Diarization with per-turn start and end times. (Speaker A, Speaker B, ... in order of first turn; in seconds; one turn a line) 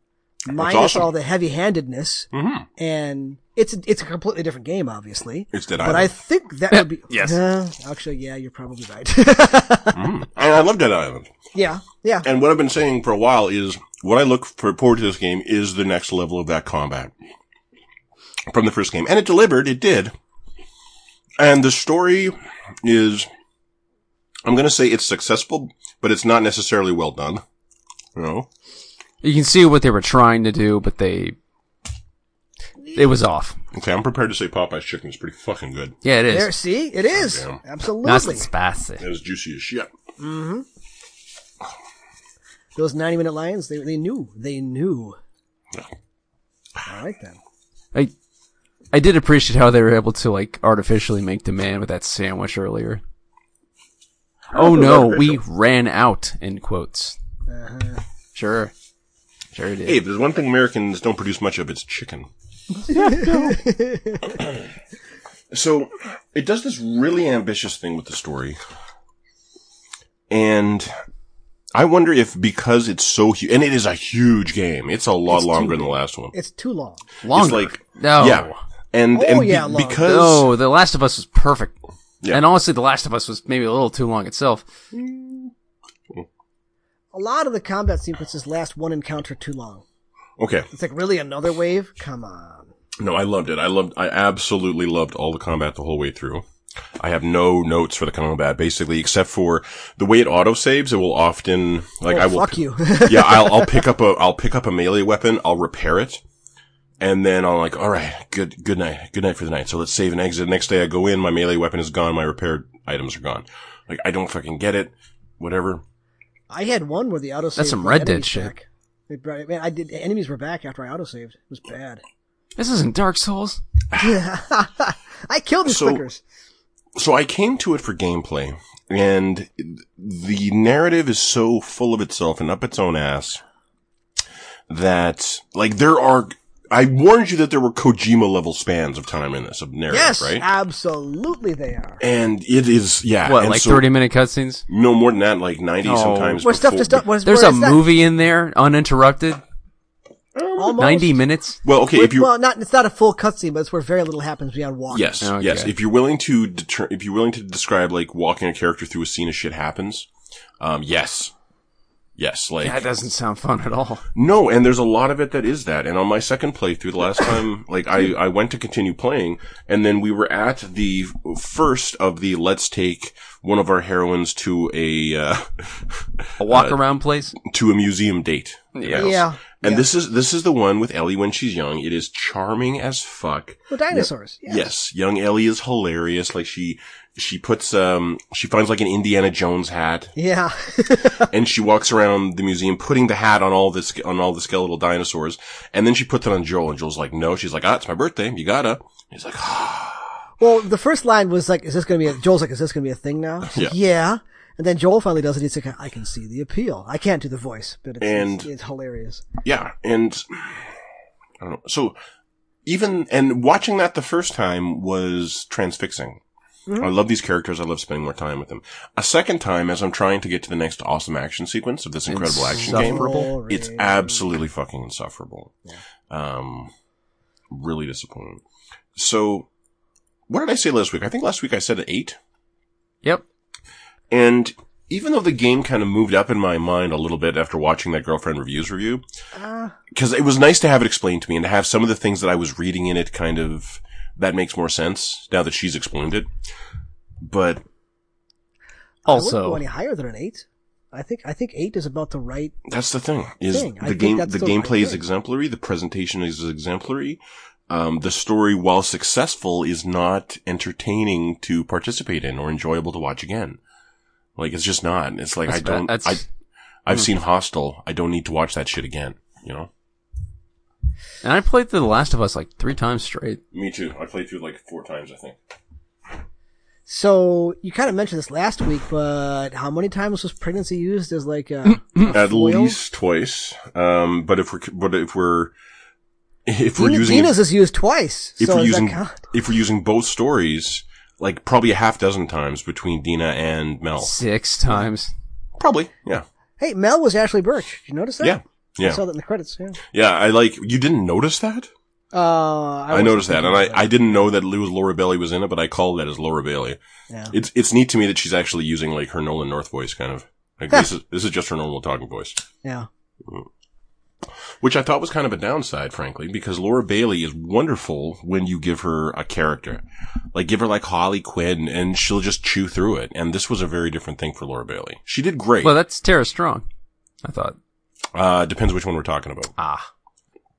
Speaker A: 0.5-10.1
Speaker B: 0.5-1.1
Speaker B: 2.3-2.6
Speaker B: 5.5-6.1
Speaker C: 6.7-7.4
Speaker B: 9.9-11.3
Speaker A: 11.5-12.3
Speaker B: 12.2-17.1
Speaker B: 18.5-20.1
Speaker B: 21.4-23.3
Speaker B: 24.4-27.4
Speaker B: 28.1-28.5
Speaker C: 29.2-31.3
Speaker C: 32.9-33.6
Speaker B: 33.7-35.9
Speaker C: 36.0-36.5
Speaker A: 36.3-38.5
Speaker B: 37.1-37.6
Speaker C: 38.0-39.0
Speaker B: 39.0-39.9
Speaker A: 40.2-40.6
Speaker A: 42.8-45.2
Speaker A: 46.9-47.4
Speaker C: 48.9-53.0
Speaker B: 54.5-55.4
Speaker C: 54.5-57.2
Speaker A: 57.5-58.0
Speaker C: 58.3-58.7
Speaker C: 59.5-60.0
Speaker B: 59.8-62.3
Speaker A: 62.9-64.4
Speaker C: 63.0-63.5
Speaker B: 64.3-64.7
Speaker B: 65.5-68.6
Speaker B: 70.3-70.9
Speaker B: 71.7-76.3
Speaker A: 75.3-77.0
Speaker C: 77.2-78.6
Speaker B: 77.3-80.5
Speaker A: 79.1-80.1
Speaker C: 80.0-81.8
Speaker C: 82.3-84.7
Speaker B: 84.9-85.5
Speaker A: 87.1-89.8
Speaker B: 90.4-90.7
Speaker A: 90.7-92.7
Speaker B: 93.0-96.4
Speaker B: 97.0-106.2
Speaker A: 102.1-103.9
Speaker B: 107.0-115.8
Speaker A: 116.5-122.0
Speaker C: 117.6-118.5
Speaker C: 122.5-123.6
Speaker B: 123.9-124.2
Speaker A: 124.0-126.2
Speaker B: 125.6-126.0
Speaker B: 126.9-133.4
Speaker B: 134.7-140.4
Speaker A: 139.9-142.0
Speaker B: 142.0-143.8
Speaker C: 143.2-144.6
Speaker B: 144.7-147.0
Speaker C: 145.8-146.4
Speaker A: 146.4-147.8
Speaker C: 147.2-149.4
Speaker B: 150.3-150.8
Speaker A: 150.6-151.2
Speaker C: 150.8-151.6
Speaker B: 151.6-152.3
Speaker A: 151.9-155.2
Speaker B: 154.9-160.1
Speaker C: 155.2-155.7
Speaker B: 160.6-161.3
Speaker B: 162.2-162.8
Speaker C: 162.6-164.0
Speaker B: 164.1-176.8
Speaker C: 176.4-177.3
Speaker B: 177.3-190.1
Speaker C: 178.8-179.2
Speaker A: 178.9-179.9
Speaker A: 183.7-184.7
Speaker A: 190.1-191.3
Speaker B: 191.2-200.2
Speaker A: 200.4-209.2
Speaker B: 203.4-203.8
Speaker B: 208.0-208.5
Speaker B: 209.4-210.8
Speaker B: 211.4-211.9
Speaker B: 212.6-216.2
Speaker A: 216.7-216.9
Speaker B: 216.8-225.5
Speaker C: 222.1-223.3
Speaker A: 222.6-224.2
Speaker B: 226.1-226.7
Speaker B: 227.5-228.4
Speaker B: 228.9-229.5
Speaker B: 230.3-232.2
Speaker B: 234.1-239.0
Speaker A: 239.3-239.8
Speaker B: 239.9-246.3
Speaker B: 247.2-247.6
Speaker A: 249.1-252.5
Speaker C: 249.1-249.6
Speaker B: 252.6-263.6
Speaker A: 253.5-255.0
Speaker B: 264.4-266.2
Speaker C: 265.5-266.2
Speaker B: 266.9-269.7
Speaker C: 271.2-273.4
Speaker B: 273.5-275.4
Speaker A: 276.9-282.8
Speaker B: 282.1-285.5
Speaker B: 286.4-287.4
Speaker A: 286.8-289.2
Speaker B: 288.4-294.1
Speaker C: 294.0-295.1
Speaker B: 295.6-296.2
Speaker A: 296.6-299.8
Speaker B: 298.2-299.0
Speaker B: 299.9-301.7
Speaker A: 302.1-304.2
Speaker B: 302.9-306.8
Speaker B: 307.3-312.4
Speaker A: 312.6-312.9
Speaker B: 314.5-319.8
Speaker B: 320.3-325.7
Speaker C: 325.6-326.6
Speaker C: 327.2-327.6
Speaker B: 328.1-329.5
Speaker C: 329.6-329.9